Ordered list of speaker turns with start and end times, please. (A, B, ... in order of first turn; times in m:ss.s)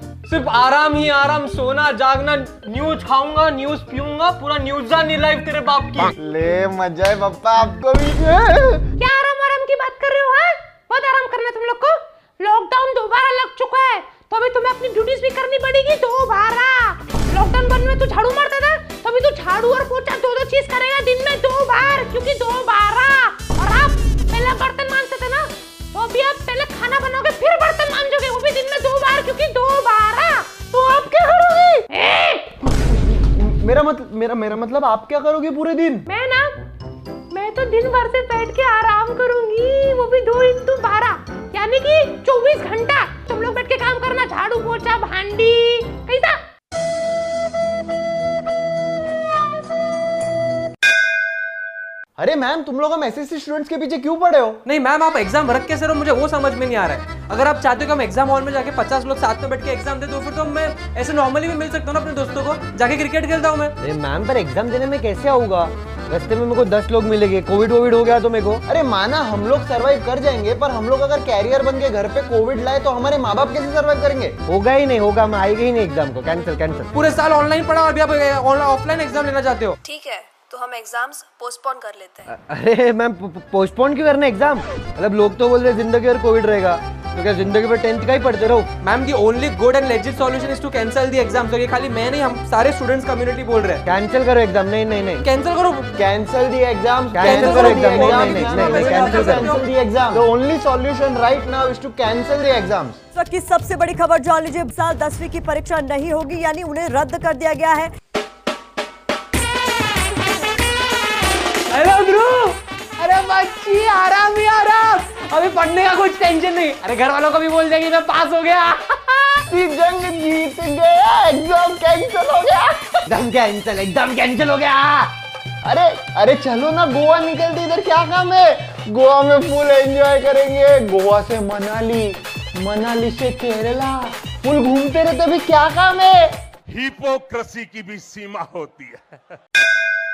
0:00.3-0:06.1 A
0:06.2-0:08.9 B
0:09.0-0:31.1 C
0:31.0-0:31.9 B
0:31.9-0:32.6 C
0:32.6-0:36.1 B
0:36.1-0:36.6 C
0:37.3-0:46.4 C
0:52.2-0:54.6 B
0:54.6-1:03.8 A
1:03.8-1:08.6 D
1:08.7-1:14.4 B
1:14.5-1:16.9 D
1:16.9-1:19.8 A
1:19.8-1:22.3 E
1:22.3-1:28.7 D
1:28.8-1:33.8 A
1:33.9-1:35.2 D
1:35.2-1:35.9 A
1:36.0-1:43.0 B
1:36.8-1:39.5 D
1:37.2-1:39.7 A
1:43.1-1:47.9 F
1:51.7-1:59.4 A
1:59.4-2:03.0 B
2:03.1-2:05.1 D
2:05.6-2:16.4 B
2:16.7-2:19.0 G